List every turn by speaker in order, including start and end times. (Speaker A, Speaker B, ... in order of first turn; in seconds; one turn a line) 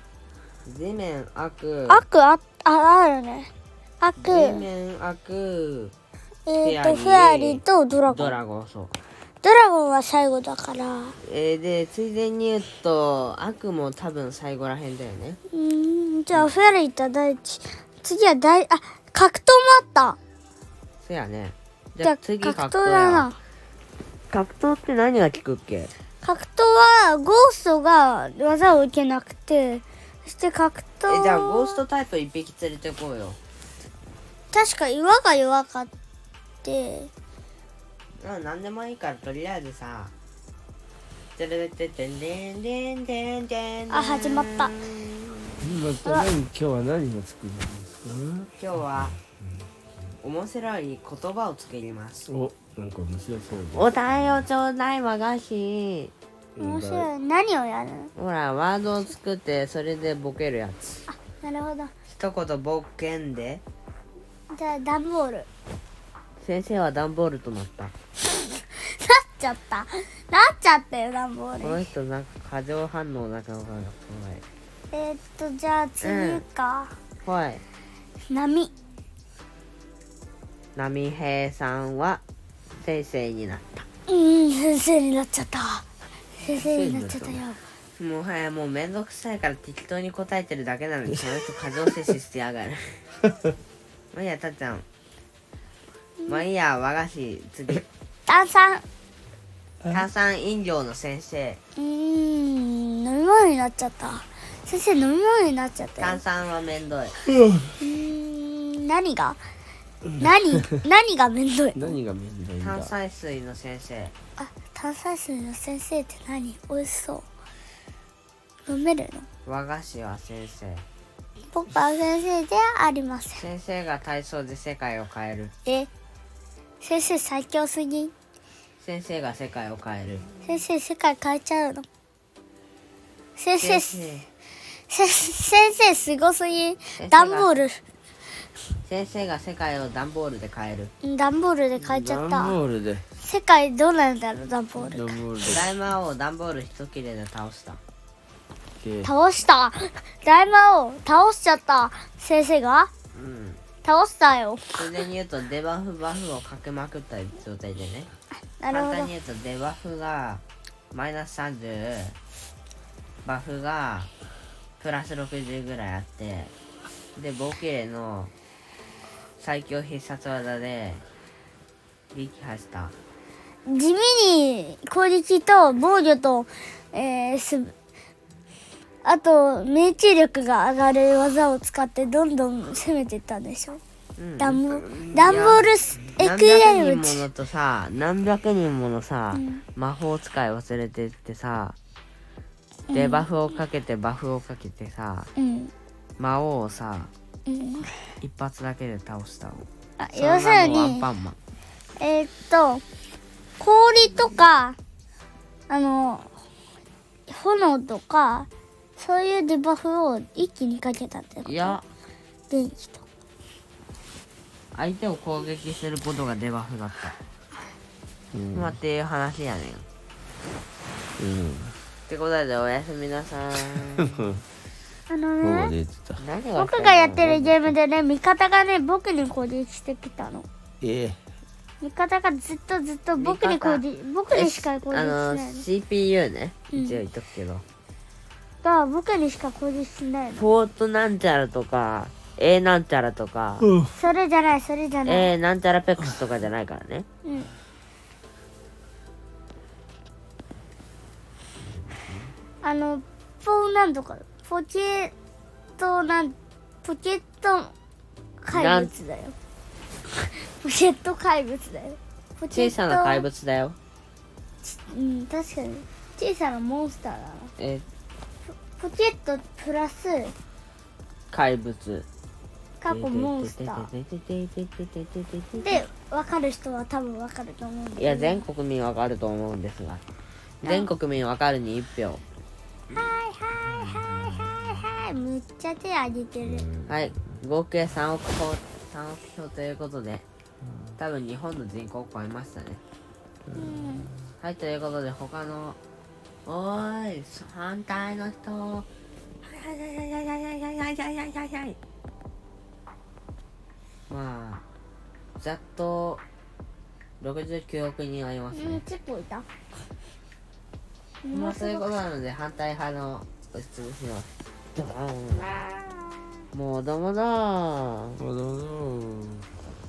Speaker A: 0.7-2.0
Speaker B: 1.9-3.5
Speaker B: 4.0-4.7
Speaker A: 4.2-5.9
Speaker B: 6.5-8.4
Speaker A: 6.6-8.9
Speaker B: 9.4-11.2
Speaker A: 11.2-15.4
Speaker B: 15.5-20.2
Speaker A: 21.0-23.3
Speaker B: 22.0-23.4
Speaker A: 24.3-25.9
Speaker B: 26.2-31.8
Speaker A: 31.1-33.4
Speaker B: 34.5-35.9
Speaker B: 36.6-37.1
Speaker A: 38.2-40.1
Speaker A: 41.4-45.7
Speaker B: 43.9-44.7
Speaker C: 45.6-48.5
Speaker B: 46.0-46.3
Speaker A: 48.6-49.2
Speaker A: 50.2-52.3
Speaker C: 52.3-54.4
Speaker A: 53.7-56.1
Speaker C: 56.6-57.1
Speaker B: 56.6-58.1
Speaker A: 58.2-61.0
Speaker B: 61.1-61.9
Speaker A: 62.1-63.6
Speaker B: 64.5-65.5
Speaker A: 66.4-67.9
Speaker B: 68.3-71.9
Speaker A: 71.6-74.4
Speaker B: 74.9-76.9
Speaker A: 76.0-76.4
Speaker A: 77.2-77.6
Speaker B: 78.3-78.7
Speaker A: 80.8-82.2
Speaker A: 82.8-83.8
Speaker B: 84.1-85.9
Speaker B: 86.4-87.6
Speaker C: 86.4-87.4
Speaker A: 88.0-93.0
Speaker A: 94.1-94.8
Speaker A: 96.3-97.9
Speaker B: 98.3-98.8
Speaker A: 99.9-101.6
Speaker B: 101.8-106.2
Speaker A: 106.0-107.2
Speaker B: 107.8-109.4
Speaker B: 110.2-112.0
Speaker C: 111.8-112.9
Speaker A: 112.6-114.1
Speaker B: 114.4-117.2
Speaker B: 118.7-119.2
Speaker A: 119.5-120.8
Speaker B: 121.5-123.5
Speaker A: 123.4-125.5
Speaker B: 126.8-128.1
Speaker A: 128.8-130.2
Speaker B: 130.4-131.9
Speaker B: 133.4-134.0
Speaker A: 133.6-134.3
Speaker B: 134.9-137.8
Speaker A: 137.0-137.6
Speaker A: 138.8-140.9
Speaker B: 141.0-142.6
Speaker C: 141.8-143.1
Speaker B: 143.2-145.2
Speaker C: 144.8-145.7
Speaker A: 145.4-147.8
Speaker C: 148.8-149.1
Speaker B: 149.0-152.9
Speaker A: 153.1-153.6
Speaker B: 153.8-154.8
Speaker A: 154.8-158.1
Speaker B: 158.6-159.1
Speaker A: 158.7-162.2
Speaker A: 163.2-164.1
Speaker A: 164.8-166.5
Speaker A: 167.2-168.3
Speaker A: 169.4-171.0
Speaker A: 172.1-172.9
Speaker B: 173.7-177.7
Speaker B: 179.0-183.8
Speaker A: 184.2-191.8
Speaker B: 184.4-187.2
Speaker B: 189.3-189.6
Speaker B: 192.9-193.2
Speaker A: 192.9-195.3
Speaker B: 195.4-195.7
Speaker A: 196.2-197.1
Speaker B: 197.4-197.9
Speaker A: 198.2-201.4
Speaker B: 200.0-201.0
Speaker B: 202.0-202.8
Speaker B: 203.6-204.8
Speaker B: 205.7-206.3
Speaker B: 207.3-211.8
Speaker A: 211.4-211.8
Speaker B: 212.5-213.0
Speaker A: 214.8-217.2
Speaker C: 218.3-218.8
Speaker A: 218.5-219.8
Speaker C: 221.2-221.8
Speaker A: 222.1-224.3
Speaker B: 225.1-225.8
Speaker C: 225.4-226.2
Speaker A: 226.2-227.7
Speaker B: 226.6-230.5
Speaker C: 230.8-231.2
Speaker B: 231.8-235.6
Speaker A: 233.2-237.6
Speaker B: 236.7-237.0
Speaker B: 238.6-240.4
Speaker A: 240.3-243.7
Speaker B: 243.8-245.3
Speaker A: 245.1-247.1
Speaker B: 247.2-247.5
Speaker B: 252.6-255.1
Speaker B: 255.8-257.7
Speaker B: 258.4-259.4
Speaker A: 258.5-258.9
Speaker B: 260.1-263.2
Speaker A: 262.5-263.8
Speaker B: 264.6-267.5
Speaker A: 267.6-267.9
Speaker B: 268.7-270.3
Speaker A: 271.3-272.1
Speaker B: 272.8-273.9
Speaker A: 272.9-275.8
Speaker B: 275.6-278.4
Speaker A: 278.0-280.0
Speaker A: 280.6-282.2
Speaker B: 280.6-280.9
Speaker B: 282.9-286.7
Speaker C: 283.9-284.4
Speaker C: 286.5-286.9
Speaker A: 286.9-290.2
Speaker A: 291.0-292.8
Speaker C: 293.5-294.2
Speaker B: 293.6-294.1
Speaker A: 294.4-295.8
Speaker A: 296.4-298.9
Speaker A: 299.4-301.8
Speaker A: 304.1-304.6
Speaker A: 305.4-306.2
Speaker A: 307.2-308.8
Speaker B: 308.5-309.5
Speaker B: 311.2-311.9
Speaker A: 311.3-315.6
Speaker B: 315.5-315.9
Speaker A: 316.5-318.2
Speaker C: 318.2-319.5